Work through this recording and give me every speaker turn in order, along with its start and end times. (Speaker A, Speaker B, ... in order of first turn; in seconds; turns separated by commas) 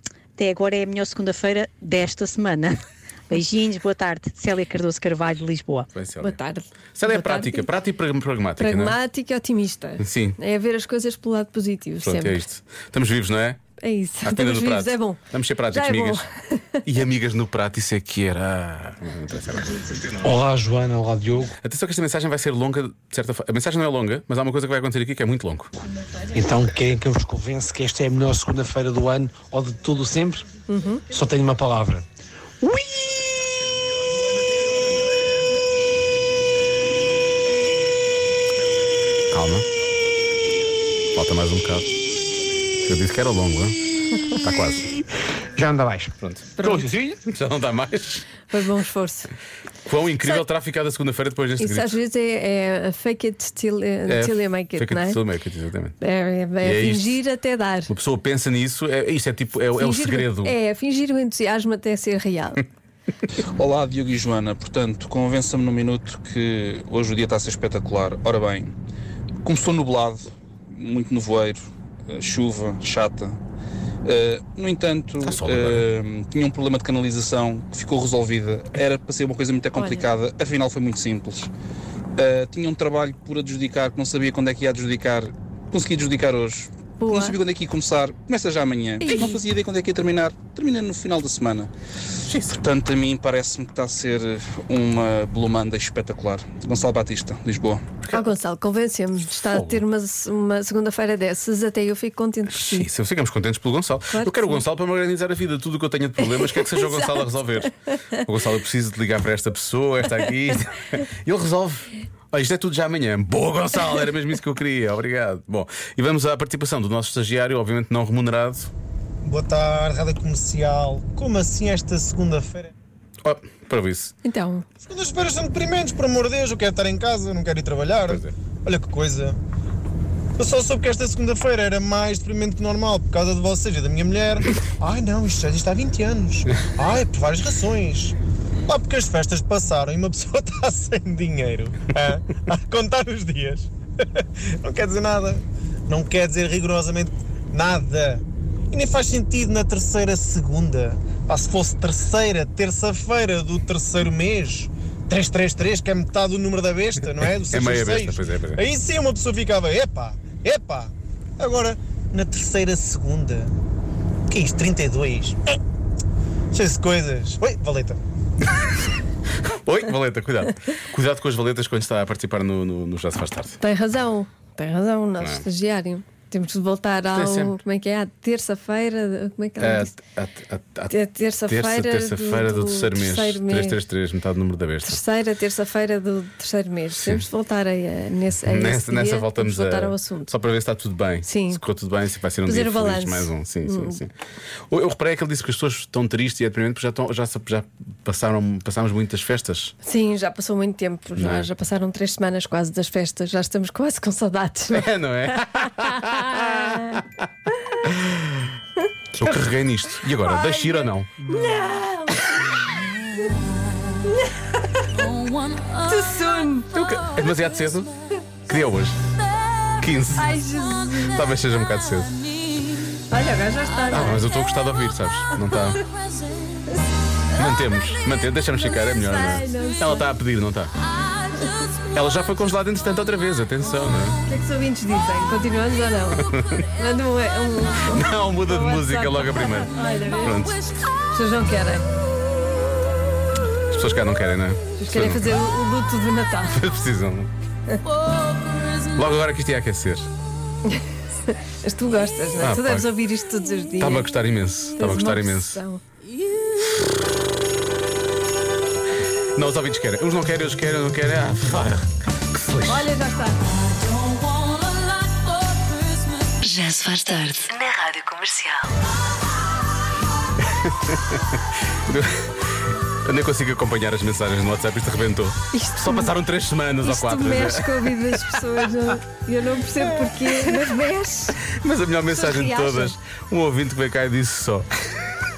Speaker A: 0.4-5.9, Speaker B: 5.9-6.4, Speaker C: 6.2-7.7, Speaker B: 7.0-9.0, Speaker C: 8.6-12.4, Speaker B: 10.0-10.4, Speaker B: 12.0-13.6, Speaker C: 13.8-15.2, Speaker B: 14.2-16.2, Speaker C: 15.7-16.8, Speaker B: 16.9-19.9, Speaker D: 20.2-21.5, Speaker B: 21.6-25.7, Speaker D: 26.3-30.5, Speaker C: 30.7-31.0, Speaker D: 31.1-32.1, Speaker B: 39.3-39.7, Speaker B: 41.1-41.9, Speaker B: 42.8-43.8, Speaker B: 44.4-44.9, Speaker D: 45.5-47.2, Speaker B: 46.2-48.3, Speaker C: 46.6-46.8, Speaker C: 48.5-49.3, Speaker B: 49.9-52.0, Speaker C: 51.6-55.2, Speaker B: 54.1-56.0, Speaker C: 56.0-57.9, Speaker B: 56.6-57.2, Speaker B: 57.9-60.6, Speaker C: 59.8-62.6, Speaker E: 63.6-68.7, Speaker E: 69.4-73.4, Speaker E: 74.0-81.5, Speaker B: 75.2-75.9, Speaker C: 79.8-80.0, Speaker E: 82.2-91.7, Speaker C: 87.0-87.4, Speaker C: 89.0-89.4, Speaker B: 92.2-92.6, Speaker E: 92.5-97.8, Speaker C: 98.1-102.9, Speaker B: 99.5-99.8, Speaker B: 102.5-118.7, Speaker C: 104.1-104.6, Speaker C: 106.3-107.3, Speaker F: 119.2-122.7, Speaker B: 123.2-124.1, Speaker C: 124.2-124.7, Speaker F: 124.8-129.4, Speaker B: 128.1-128.3, Speaker F: 130.4-138.2, Speaker F: 138.7-163.5, Speaker B: 157.5-158.6, Speaker F: 164.3-165.6, Speaker F: 166.5-168.0, Speaker B: 169.4-173.6, Speaker C: 173.6-179.9, Speaker B: 175.2-175.4, Speaker B: 177.1-177.6, Speaker B: 179.6-180.9, Speaker C: 180.9-183.8, Speaker B: 181.5-185.0, Speaker C: 184.8-190.3, Speaker B: 187.0-187.2, Speaker B: 188.4-194.1, Speaker C: 191.2-191.6, Speaker C: 192.4-194.0, Speaker B: 194.7-199.7, Speaker C: 199.8-205.6, Speaker B: 201.2-201.5, Speaker B: 204.7-207.0, Speaker C: 206.3-207.0, Speaker B: 207.9-208.5, Speaker B: 209.1-211.1, Speaker C: 210.3-210.6, Speaker C: 211.2-212.7, Speaker C: 214.1-214.3, Speaker C: 215.6-216.7, Speaker B: 216.7-217.9, Speaker B: 218.5-219.0, Speaker B: 219.8-220.4, Speaker C: 220.2-221.2, Speaker B: 221.0-222.2, Speaker C: 223.1-224.3, Speaker B: 223.9-225.8, Speaker B: 227.3-230.7, Speaker C: 228.7-230.1, Speaker B: 231.9-234.2, Speaker C: 234.2-240.4, Speaker B: 236.3-236.6, Speaker B: 237.9-240.7, Speaker C: 241.1-241.9, Speaker B: 243.7-245.4, Speaker C: 244.8-246.6, Speaker B: 246.5-247.3, Speaker B: 248.7-250.1, Speaker C: 251.6-254.2, Speaker B: 252.4-252.9, Speaker B: 253.8-255.6, Speaker C: 254.8-255.8, Speaker B: 259.4-262.9, Speaker C: 262.7-263.4, Speaker C: 265.1-266.0, Speaker G: 266.4-268.6, Speaker B: 270.6-272.3, Speaker B: 273.0-277.9, Speaker C: 275.5-276.1, Speaker C: 276.8-281.4, Speaker B: 280.2-280.6, Speaker B: 281.6-284.7, Speaker C: 282.1-282.9